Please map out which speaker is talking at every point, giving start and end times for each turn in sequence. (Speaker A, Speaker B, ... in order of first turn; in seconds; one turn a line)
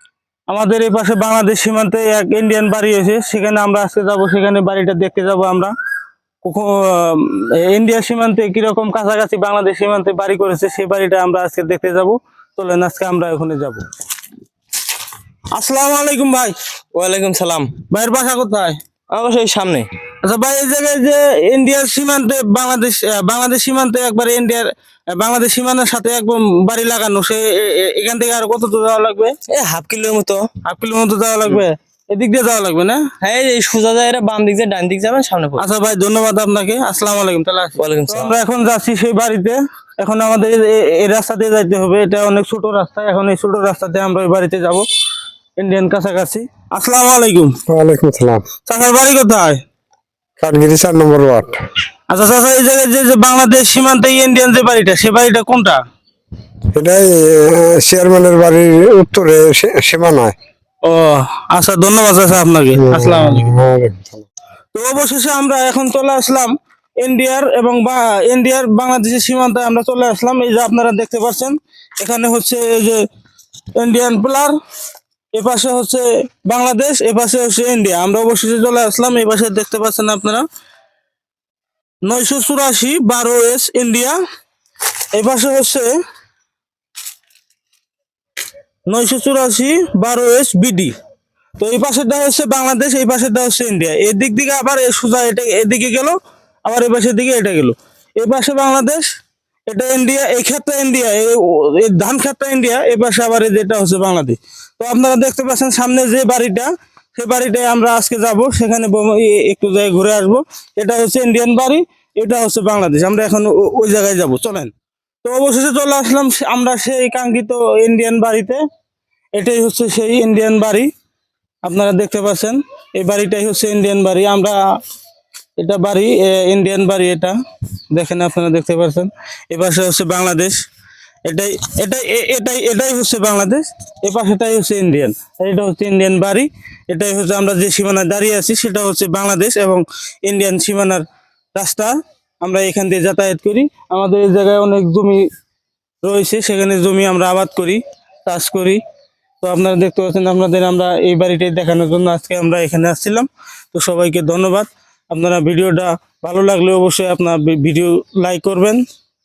Speaker A: 0.5-5.7
Speaker A: 6.4-13.8
Speaker A: 15.5-16.5
Speaker B: 16.9-17.7
Speaker A: 17.9-18.8
Speaker B: 19.1-19.9
Speaker A: 20.2-29.3
Speaker B: 29.5-30.5
Speaker A: 30.6-33.0
Speaker B: 33.2-35.6
Speaker A: 35.6-44.8
Speaker B: 37.8-38.3
Speaker A: 45.6-47.5
Speaker C: 47.7-48.4
Speaker A: 48.6-49.6
Speaker C: 50.4-51.6
Speaker A: 52.1-55.8
Speaker C: 56.7-60.3
Speaker A: 60.8-63.5
Speaker C: 62.8-64.2
Speaker A: 64.7-73.0
Speaker A: 73.8-74.5
Speaker A: 75.3-80.4
Speaker A: 82.0-84.2
Speaker A: 85.1-85.9
Speaker A: 88.9-90.9
Speaker A: 91.6-99.0
Speaker A: 99.7-114.7
Speaker A: 115.2-118.6
Speaker A: 119.3-120.9
Speaker A: 121.6-124.6
Speaker A: 125.6-127.3
Speaker A: 127.9-130.6
Speaker A: 131.2-145.2
Speaker A: 146.0-148.8
Speaker A: 149.4-158.8